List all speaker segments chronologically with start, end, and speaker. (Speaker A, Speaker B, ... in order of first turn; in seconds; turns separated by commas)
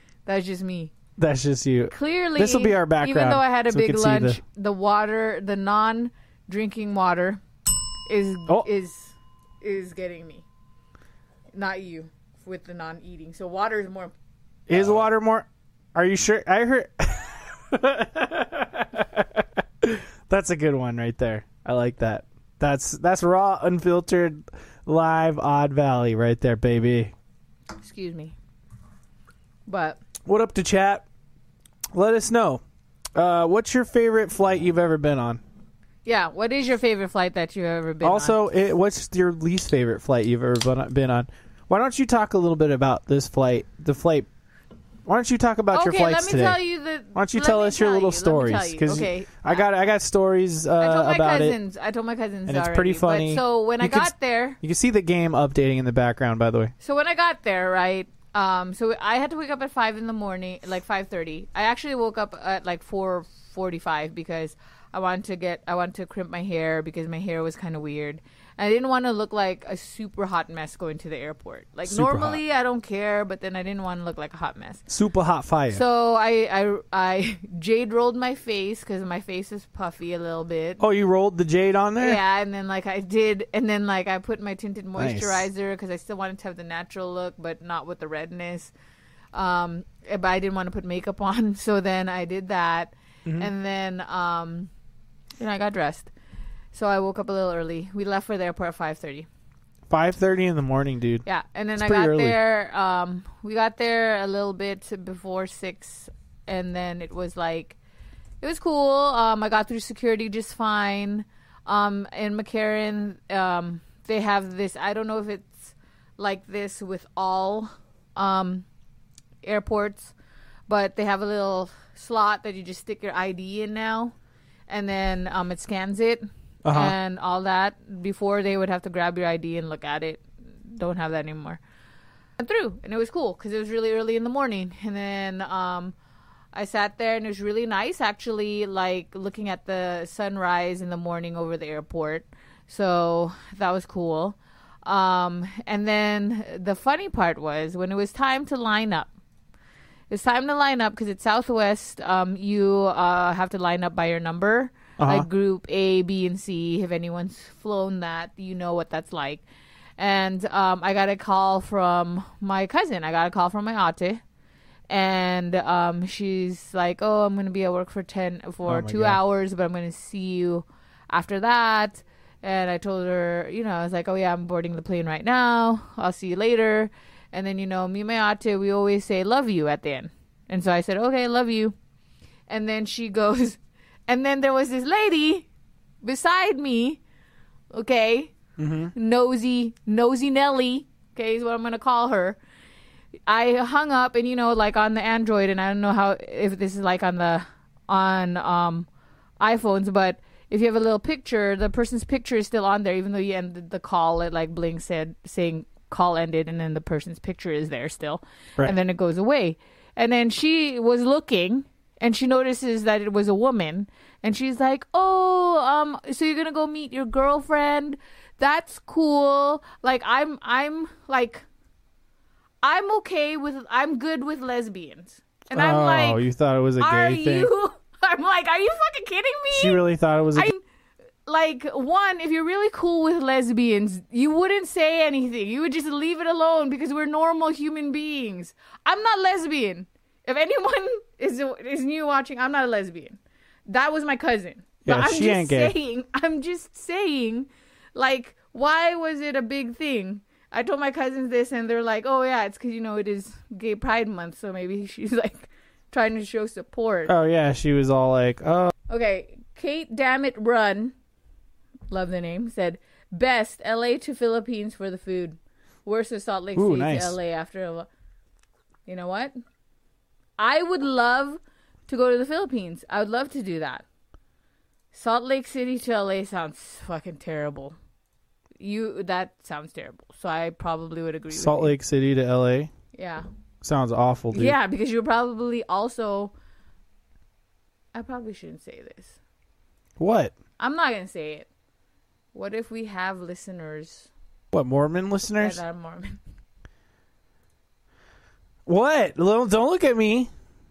Speaker A: 0.3-0.9, Speaker B: 1.2-4.4, Speaker A: 1.9-7.4, Speaker A: 8.1-10.5, Speaker A: 11.5-14.1, Speaker B: 14.7-27.1, Speaker A: 27.8-28.4, Speaker A: 29.7-30.0, Speaker B: 30.2-31.1, Speaker B: 31.9-32.6, Speaker B: 33.2-35.4, Speaker A: 36.0-38.4, Speaker B: 38.0-44.3, Speaker B: 45.1-46.6, Speaker A: 45.7-49.6, Speaker B: 47.1-51.6, Speaker A: 50.8-54.6, Speaker B: 52.5-56.7, Speaker A: 56.8-74.9, Speaker B: 71.9-72.4, Speaker B: 74.9-75.8, Speaker A: 75.7-80.8, Speaker B: 80.8-82.2, Speaker A: 82.0-88.7, Speaker B: 85.0-85.5, Speaker A: 89.3-94.7, Speaker A: 95.4-96.1, Speaker A: 96.7-99.3, Speaker B: 99.9-101.2, Speaker A: 101.2-107.8, Speaker B: 101.8-102.4, Speaker A: 108.4-118.7, Speaker A: 119.4-120.1, Speaker A: 120.7-124.2, Speaker A: 124.7-131.6, Speaker B: 126.6-127.0, Speaker A: 132.4-135.9, Speaker A: 136.5-149.1, Speaker A: 150.1-159.4, Speaker B: 155.0-155.3, Speaker A: 160.0-164.2, Speaker A: 164.9-181.8, Speaker B: 168.7-169.2, Speaker A: 182.5-185.5, Speaker A: 186.0-187.0, Speaker A: 187.7-188.4, Speaker B: 188.6-188.9, Speaker A: 188.9-192.4, Speaker A: 193.3-198.9, Speaker A: 199.4-221.4, Speaker A: 222.6-226.2, Speaker B: 225.5-227.5, Speaker A: 226.8-229.8, Speaker B: 229.5-230.5, Speaker A: 230.3-230.6, Speaker A: 231.3-257.1, Speaker B: 244.8-245.7, Speaker B: 257.1-258.7, Speaker A: 258.9-260.9, Speaker A: 261.9-267.9, Speaker B: 266.6-267.2, Speaker A: 268.9-269.3, Speaker A: 270.4-273.8, Speaker A: 274.9-277.8, Speaker A: 278.6-281.7, Speaker B: 281.3-282.7, Speaker A: 282.9-283.3, Speaker B: 283.6-284.6, Speaker A: 284.3-286.3, Speaker A: 287.9-289.2, Speaker B: 290.0-290.3, Speaker A: 290.6-291.5, Speaker A: 292.3-294.1, Speaker B: 294.5-295.6, Speaker A: 295.4-296.2, Speaker B: 298.7-300.3